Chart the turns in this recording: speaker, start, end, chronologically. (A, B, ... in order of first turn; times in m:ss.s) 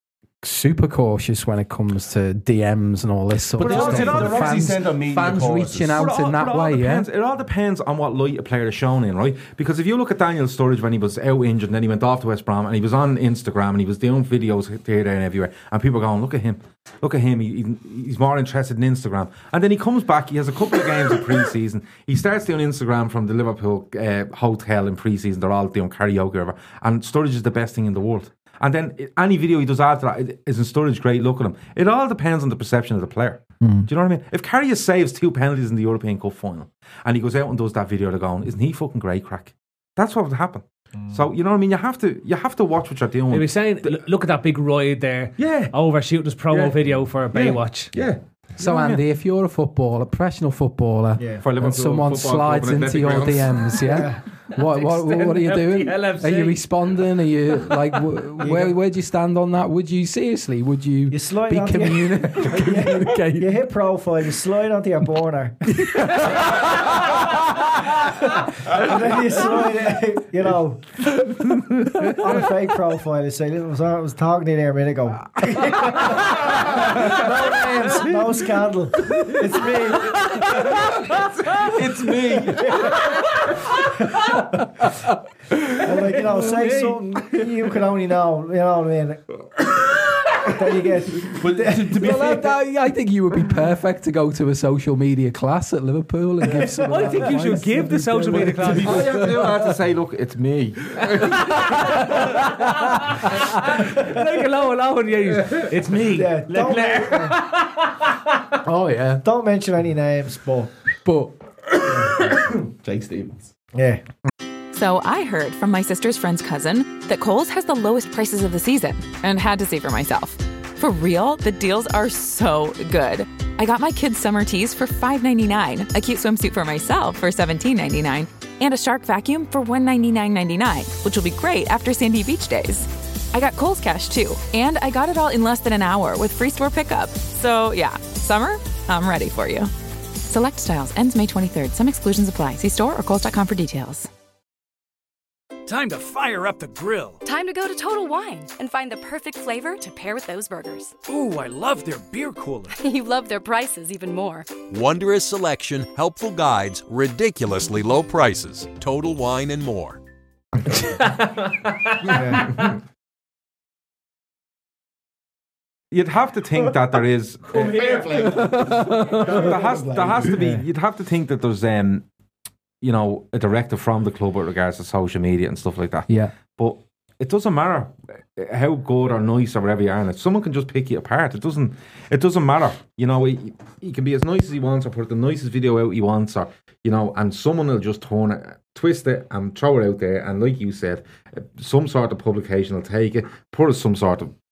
0:00.4-0:07.1 A
0:03.6-0:06.1 B
0:03.6-0:04.6 C
0:03.7-0:04.3 D
0:05.9-0:44.0 C
0:33.6-0:33.9 A
0:43.3-0:47.9 E
0:45.4-0:45.7 C
0:46.5-0:46.8 C
0:47.3-0:49.0 C
0:48.6-1:03.5 A
0:51.2-0:51.4 D
0:51.4-0:53.9 C
0:53.9-0:54.2 D
0:54.5-0:56.6 E
0:58.4-0:58.7 D
1:01.1-1:07.0 D
1:05.8-1:06.4 A
1:08.0-1:11.2 D
1:12.0-1:20.9 D
1:21.6-1:22.4 C
1:21.7-1:22.5 B
1:22.4-1:23.1 D
1:24.1-1:24.4 D
1:25.8-1:29.4 D
1:26.6-1:26.9 E
1:30.4-1:32.5 D
1:31.3-1:32.4 B
1:31.9-1:39.7 A
1:36.6-1:39.1 E
1:38.7-1:42.0 C
1:41.3-1:48.4 E
1:41.6-1:43.1 A
1:46.0-1:47.4 D
1:48.6-1:49.2 A
1:49.2-1:50.7 D
1:51.0-1:51.4 A
1:52.8-1:53.5 B
1:53.7-1:54.0 D
1:54.7-2:24.1 F
2:25.7-2:27.2 G
2:27.2-2:31.0 H
2:31.1-2:32.7 G
2:32.7-2:34.5 H
2:34.7-2:40.0 I
2:40.9-2:42.2 E
2:42.1-2:42.6 D
2:45.9-2:52.0 C
2:47.6-2:50.3 B
2:47.7-2:48.3 E
2:48.6-2:49.0 A
2:48.9-2:49.5 E
2:52.8-3:14.3 C
2:56.1-2:56.3 A